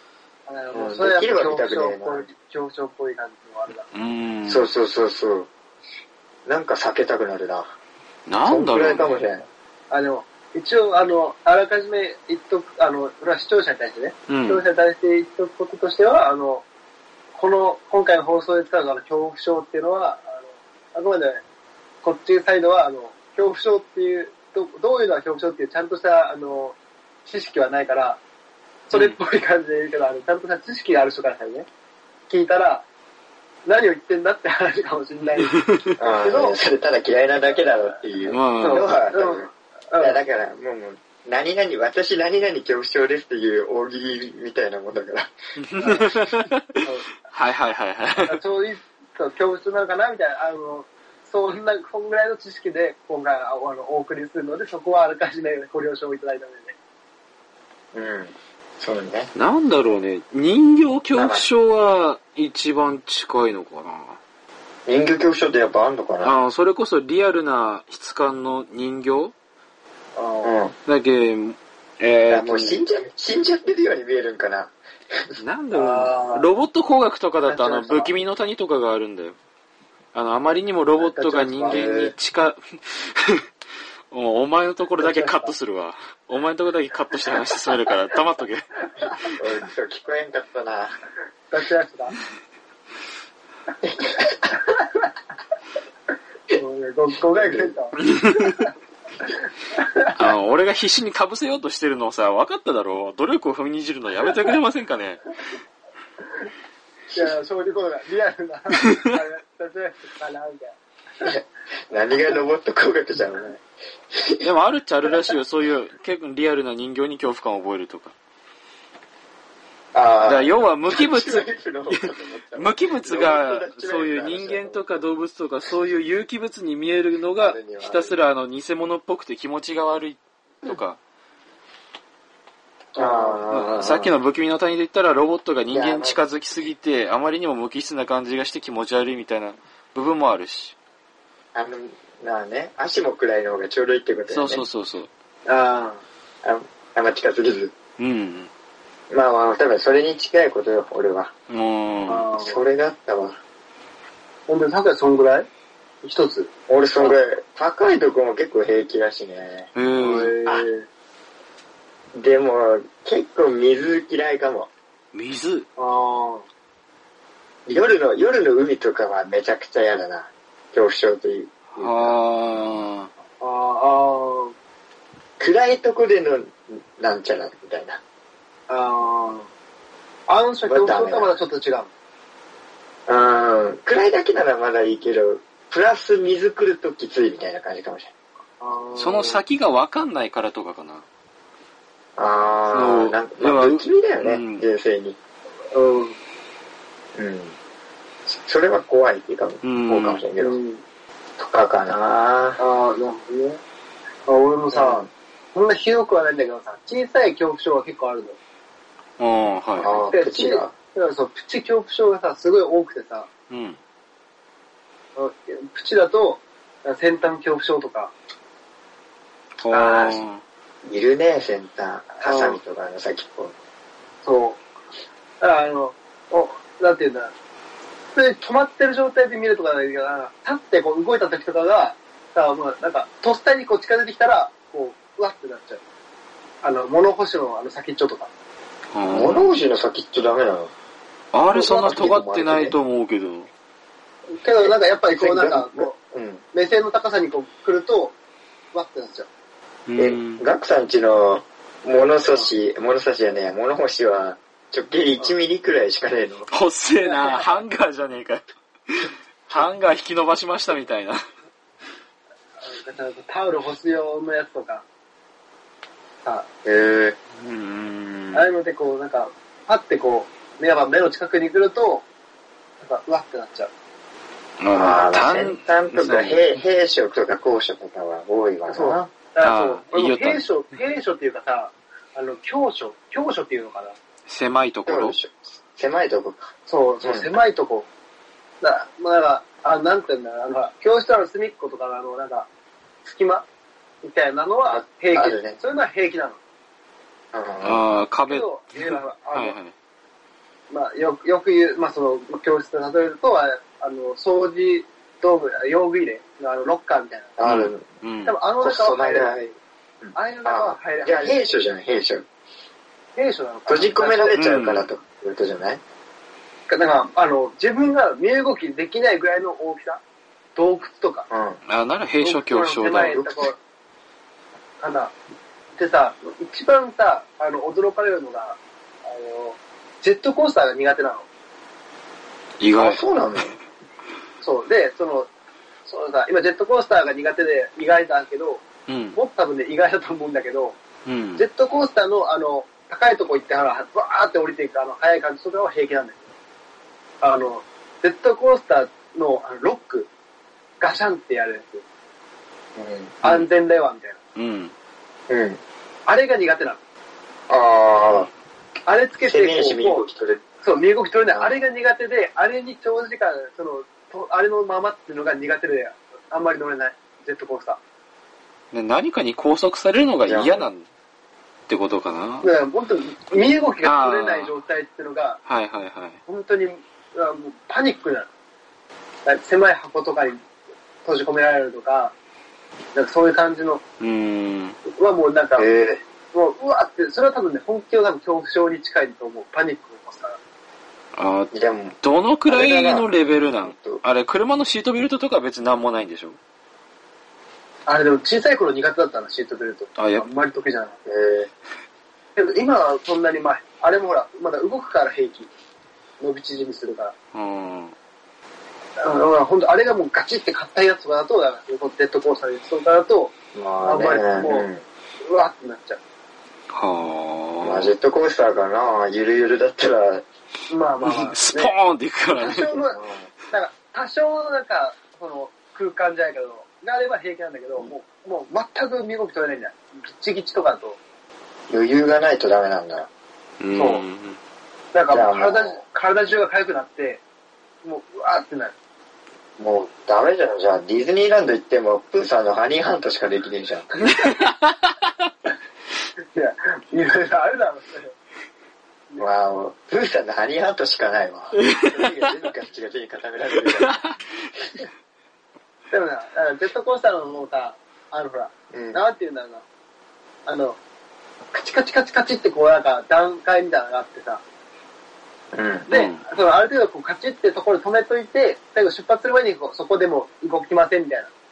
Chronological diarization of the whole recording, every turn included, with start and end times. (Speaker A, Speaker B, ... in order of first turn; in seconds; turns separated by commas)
Speaker A: 0.5-3.9, Speaker B: 0.7-2.3, Speaker C: 3.9-4.7, Speaker B: 4.5-5.5, Speaker B: 6.4-7.8, Speaker C: 8.3-9.2, Speaker B: 8.4-9.5, Speaker A: 9.9-16.6, Speaker C: 14.3-14.6, Speaker A: 17.3-21.4, Speaker A: 22.0-28.2, Speaker A: 28.9-31.7, Speaker C: 28.9-29.2, Speaker A: 32.3-32.8, Speaker A: 33.6-35.6, Speaker C: 35.5-35.9, Speaker B: 36.0-45.3, Speaker A: 36.2-36.6, Speaker C: 38.3-38.9, Speaker A: 38.6-40.2, Speaker C: 45.6-48.4, Speaker A: 45.8-46.1, Speaker A: 46.8-47.1, Speaker A: 48.2-56.8, Speaker B: 57.9-59.3, Speaker C: 59.3-64.2, Speaker B: 61.1-61.5, Speaker B: 64.9-66.4, Speaker C: 66.2-69.3, Speaker A: 70.1-70.6, Speaker B: 70.4-70.7, Speaker C: 70.9-72.8, Speaker B: 72.3-75.4, Speaker C: 75.4-79.4, Speaker A: 75.7-76.5, Speaker A: 77.5-78.1, Speaker C: 80.1-83.4, Speaker A: 81.0-81.9, Speaker B: 81.7-82.1, Speaker C: 84.1-88.7, Speaker A: 85.0-85.5, Speaker B: 89.4-91.0, Speaker A: 91.5-92.1, Speaker B: 93.8-94.5, Speaker A: 96.5-98.7, Speaker B: 97.3-97.7, Speaker C: 98.0-98.6, Speaker A: 99.7-100.2, Speaker C: 100.1-105.3, Speaker A: 107.1-111.3, Speaker B: 111.2-113.6, Speaker B: 114.1-114.4, Speaker C: 114.4-118.1, Speaker B: 119.9-124.8, Speaker C: 120.2-131.0, Speaker B: 127.4-128.1, Speaker A: 132.9-133.4, Speaker B: 132.9-134.1, Speaker C: 133.5-140.8, Speaker B: 135.7-136.2, Speaker B: 141.5-144.6, Speaker C: 144.3-145.1, Speaker A: 145.4-146.0, Speaker B: 146.4-147.7, Speaker C: 148.0-148.5, Speaker B: 149.1-151.3, Speaker C: 151.5-152.3, Speaker A: 152.1-152.6, Speaker B: 152.4-153.4, Speaker A: 154.5-155.5, Speaker A: 156.0-157.2, Speaker B: 156.7-159.7, Speaker C: 159.8-160.4, Speaker A: 160.0-160.9, Speaker B: 162.1-164.7, Speaker C: 165.1-165.7, Speaker A: 165.8-166.4, Speaker B: 167.7-172.2, Speaker C: 171.7-173.1, Speaker A: 173.4-174.5, Speaker B: 175.4-178.0, Speaker A: 178.7-179.5, Speaker A: 180.3-181.9, Speaker B: 180.6-181.3, Speaker B: 183.1-188.1, Speaker A: 188.6-189.4, Speaker C: 188.9-191.1, Speaker B: 192.2-195.2, Speaker C: 192.7-194.6, Speaker A: 195.7-196.2, Speaker B: 197.1-197.6, Speaker B: 198.2-200.6, Speaker C: 199.6-200.2, Speaker A: 200.4-200.8, Speaker B: 201.4-202.6, Speaker A: 202.6-203.6, Speaker A: 204.2-208.4, Speaker B: 204.7-205.1, Speaker C: 209.2-209.9, Speaker B: 209.8-210.7, Speaker A: 210.1-213.3, Speaker C: 213.5-213.8, Speaker A: 215.2-218.1, Speaker C: 219.6-220.4, Speaker B: 219.7-220.1, Speaker A: 219.8-220.1, Speaker B: 220.8-223.5, Speaker A: 222.2-222.6, Speaker A: 224.2-224.6, Speaker A: 225.4-227.3, Speaker A: 228.1-235.8, Speaker A: 236.6-238.3, Speaker C: 238.9-239.6, Speaker B: 239.1-240.7, Speaker C: 241.3-243.5, Speaker B: 241.6-242.8, Speaker A: 244.3-245.9, Speaker B: 244.6-246.4, Speaker A: 246.5-248.1, Speaker A: 248.7-249.3, Speaker C: 249.9-250.4, Speaker B: 249.9-256.5, Speaker C: 256.5-261.2, Speaker A: 262.6-264.8, Speaker B: 266.6-267.1, Speaker C: 267.4-268.5, Speaker A: 268.3-272.1, Speaker A: 272.8-273.7, Speaker C: 274.6-276.5, Speaker B: 274.7-279.0, Speaker A: 278.7-283.9, Speaker C: 279.4-280.4, Speaker C: 284.3-285.2, Speaker B: 284.9-286.5, Speaker A: 286.7-287.9, Speaker B: 287.0-287.3, Speaker A: 288.6-292.5, Speaker A: 293.0-293.4, Speaker A: 294.0-296.4, Speaker B: 294.7-295.6, Speaker B: 297.3-297.8, Speaker C: 297.6-299.7, Speaker A: 298.3-299.6, Speaker A: 300.7-307.3, Speaker B: 307.4-307.9, Speaker C: 307.4-308.4, Speaker A: 308.2-309.4, Speaker B: 308.6-312.2, Speaker A: 310.1-311.5, Speaker A: 313.2-314.4, Speaker B: 313.7-315.8, Speaker C: 314.3-314.9, Speaker A: 316.7-320.0, Speaker A: 320.6-321.3, Speaker B: 321.3-321.6, Speaker C: 321.7-323.2, Speaker A: 322.2-323.6, Speaker A: 324.8-325.1, Speaker A: 325.8-331.2, Speaker C: 332.6-333.0, Speaker B: 332.7-333.6, Speaker A: 334.4-335.3, Speaker A: 335.9-338.6, Speaker C: 338.9-339.2, Speaker A: 339.1-340.8, Speaker C: 341.1-341.4, Speaker A: 341.4-346.3, Speaker A: 347.2-350.1, Speaker A: 350.8-351.8, Speaker B: 352.8-353.3, Speaker A: 353.2-354.2, Speaker C: 354.4-354.7, Speaker B: 355.3-355.6, Speaker A: 356.1-356.8, Speaker B: 357.5-358.3, Speaker A: 358.9-360.0, Speaker B: 359.2-360.4, Speaker A: 360.6-367.8, Speaker B: 361.3-361.6, Speaker C: 368.7-370.8, Speaker B: 370.3-370.6, Speaker C: 371.7-372.5, Speaker A: 372.4-375.4, Speaker C: 373.8-374.6, Speaker C: 375.4-376.2, Speaker A: 376.3-378.3, Speaker A: 379.2-380.4, Speaker A: 381.1-382.1, Speaker A: 382.9-383.8, Speaker C: 384.0-384.8, Speaker A: 384.9-385.7, Speaker B: 385.6-386.0, Speaker A: 386.3-390.4, Speaker C: 391.1-396.4, Speaker B: 391.5-391.9, Speaker B: 392.5-393.1, Speaker B: 393.6-394.0, Speaker A: 397.9-400.9, Speaker C: 400.0-400.2, Speaker B: 401.1-401.5, Speaker A: 402.4-405.5, Speaker A: 406.2-407.1, Speaker C: 407.3-407.9, Speaker A: 409.0-414.7, Speaker B: 413.5-414.8, Speaker A: 415.2-416.0, Speaker C: 416.7-417.9, Speaker B: 417.6-420.2, Speaker A: 420.7-421.7, Speaker C: 421.0-422.8, Speaker A: 422.4-431.0, Speaker B: 423.0-423.3, Speaker B: 431.7-433.1, Speaker C: 433.6-434.4, Speaker A: 433.7-434.0, Speaker A: 434.9-437.2, Speaker B: 435.1-435.8, Speaker A: 437.8-438.7, Speaker B: 439.6-443.9, Speaker C: 444.2-444.7, Speaker A: 446.3-448.1, Speaker B: 449.2-454.0, Speaker C: 451.6-452.2, Speaker C: 453.7-454.2, Speaker A: 455.9-459.6, Speaker B: 458.7-459.0, Speaker A: 460.4-460.8, Speaker A: 461.5-464.4, Speaker B: 465.5-465.9, Speaker C: 465.9-466.2, Speaker A: 465.9-471.3